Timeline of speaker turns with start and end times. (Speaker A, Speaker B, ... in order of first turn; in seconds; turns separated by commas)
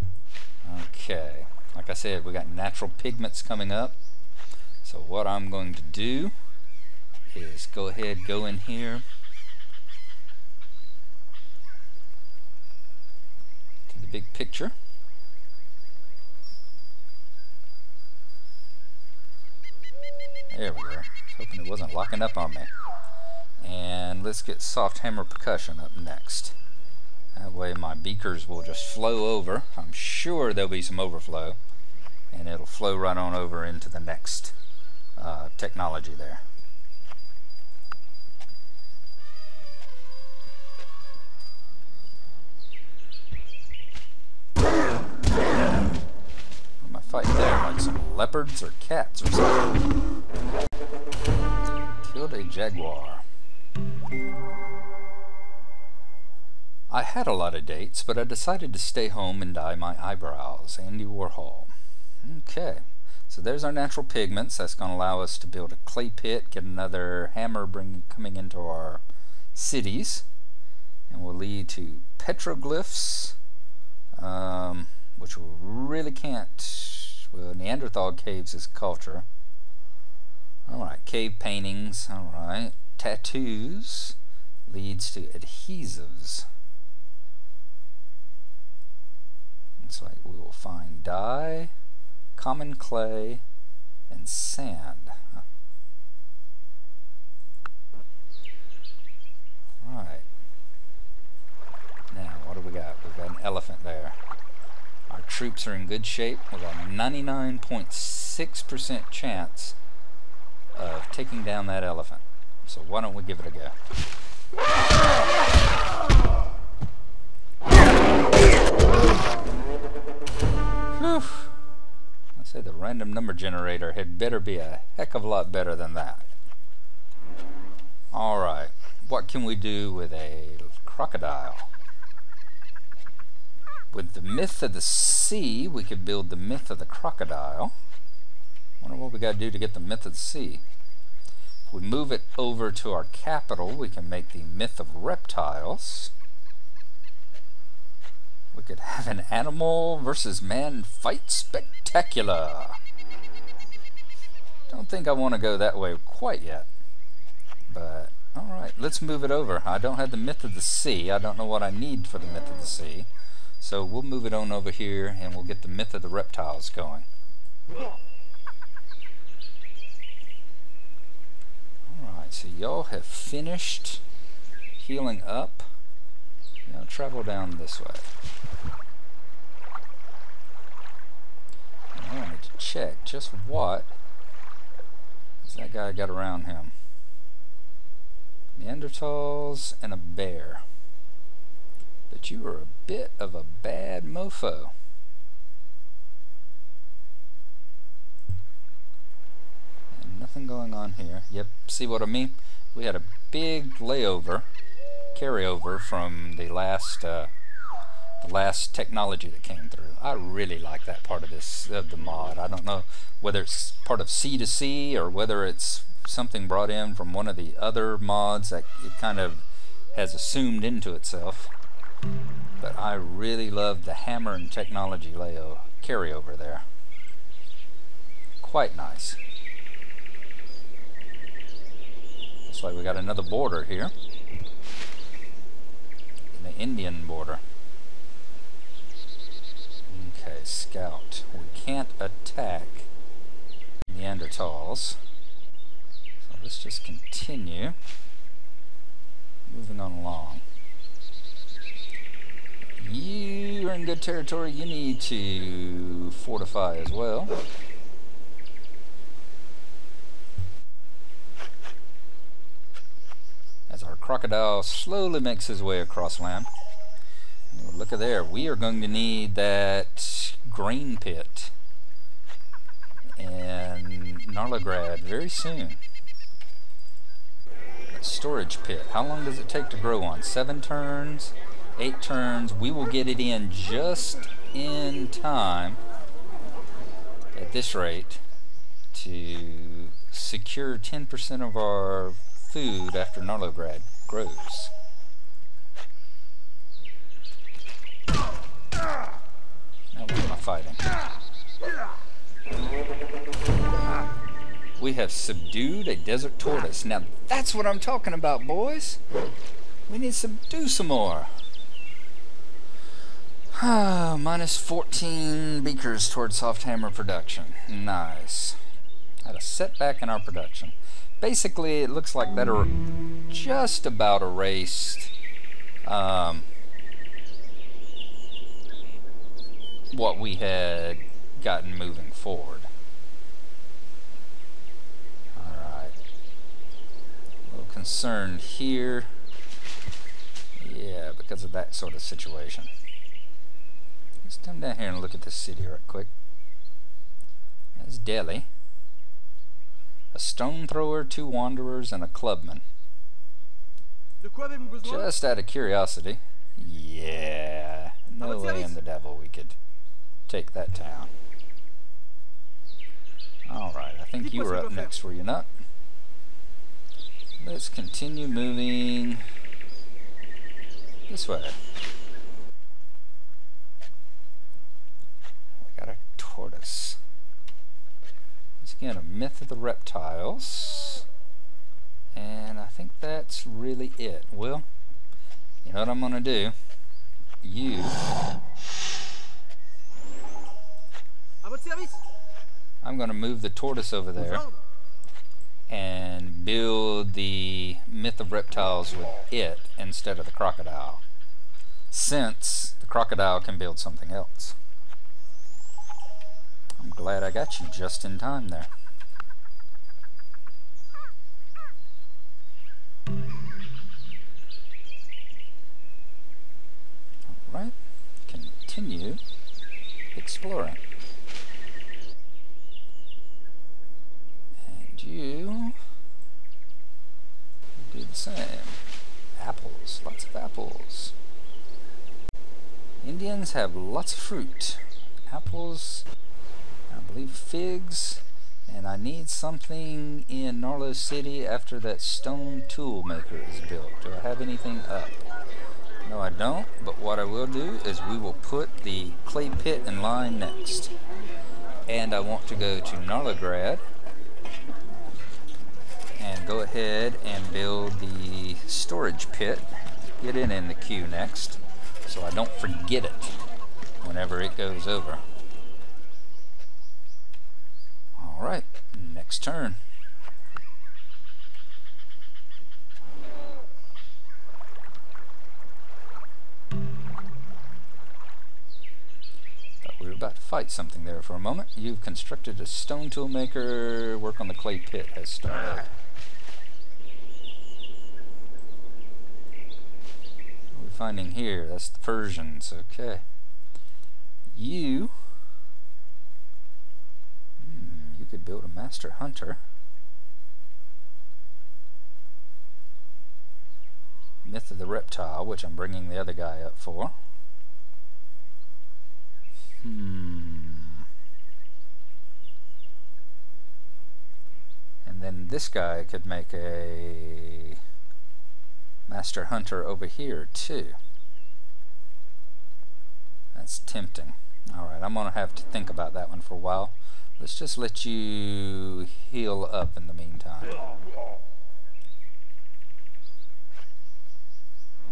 Speaker A: 0.6-4.0, Speaker A: 4.8-6.3, Speaker A: 7.3-9.0, Speaker A: 13.9-14.7, Speaker A: 20.5-22.7, Speaker A: 23.6-26.6, Speaker A: 27.4-31.6, Speaker A: 32.3-34.5, Speaker A: 35.2-36.4, Speaker A: 46.8-49.8, Speaker A: 52.0-53.2, Speaker A: 56.9-61.7, Speaker A: 62.2-70.2, Speaker A: 71.1-73.3, Speaker A: 74.1-79.2, Speaker A: 80.7-86.5, Speaker A: 89.8-91.7, Speaker A: 92.3-93.4, Speaker A: 94.1-95.4, Speaker A: 99.8-100.2, Speaker A: 102.1-104.2, Speaker A: 105.1-109.8, Speaker A: 110.8-113.7, Speaker A: 121.0-121.5, Speaker A: 122.3-126.3, Speaker A: 128.1-131.7, Speaker A: 133.9-137.7, Speaker A: 138.8-140.6, Speaker A: 141.7-146.1, Speaker A: 148.5-152.8, Speaker A: 154.7-156.7, Speaker A: 157.7-163.1, Speaker A: 163.6-167.1, Speaker A: 171.9-174.0, Speaker A: 174.8-175.7, Speaker A: 176.7-178.1, Speaker A: 181.9-183.9, Speaker A: 185.4-186.7, Speaker A: 188.6-190.6, Speaker A: 192.1-194.7, Speaker A: 199.9-204.4, Speaker A: 205.1-207.3, Speaker A: 208.2-221.5, Speaker A: 222.6-226.7, Speaker A: 228.4-229.2, Speaker A: 232.4-233.9, Speaker A: 236.3-237.4, Speaker A: 239.9-242.9, Speaker A: 243.8-245.0, Speaker A: 246.2-247.8, Speaker A: 249.5-250.4, Speaker A: 252.8-257.4, Speaker A: 263.7-266.5, Speaker A: 267.5-271.5, Speaker A: 273.2-275.8, Speaker A: 277.9-285.8, Speaker A: 287.3-288.2, Speaker A: 288.9-294.7, Speaker A: 299.9-300.8, Speaker A: 304.8-309.0, Speaker A: 309.9-311.3, Speaker A: 313.5-318.6, Speaker A: 319.2-322.8, Speaker A: 323.3-325.1, Speaker A: 325.8-326.5, Speaker A: 329.9-332.7, Speaker A: 335.4-336.0, Speaker A: 337.5-339.1, Speaker A: 340.6-342.7, Speaker A: 344.2-346.1, Speaker A: 347.8-348.5, Speaker A: 350.1-352.6, Speaker A: 354.7-359.6, Speaker A: 360.3-361.1, Speaker A: 363.4-365.5, Speaker A: 367.4-369.2, Speaker A: 371.1-371.6, Speaker A: 375.6-377.0, Speaker A: 378.6-381.0, Speaker A: 382.1-384.6, Speaker A: 385.6-386.5, Speaker A: 387.4-388.0, Speaker A: 392.8-394.5, Speaker A: 395.7-401.0, Speaker A: 401.9-404.6, Speaker A: 406.8-408.7, Speaker A: 417.3-417.7, Speaker A: 418.2-419.2, Speaker A: 420.1-420.8, Speaker A: 424.6-425.8, Speaker A: 427.8-428.8, Speaker A: 429.4-431.1, Speaker A: 433.0-436.1, Speaker A: 436.9-445.2, Speaker A: 446.0-450.9, Speaker A: 451.9-453.8, Speaker A: 456.2-463.4, Speaker A: 464.0-465.2, Speaker A: 468.1-469.8, Speaker A: 479.8-485.9, Speaker A: 490.7-493.2, Speaker A: 494.5-495.1, Speaker A: 497.6-499.6, Speaker A: 504.4-507.1, Speaker A: 509.8-511.1, Speaker A: 515.0-517.8, Speaker A: 519.1-521.0, Speaker A: 523.5-530.8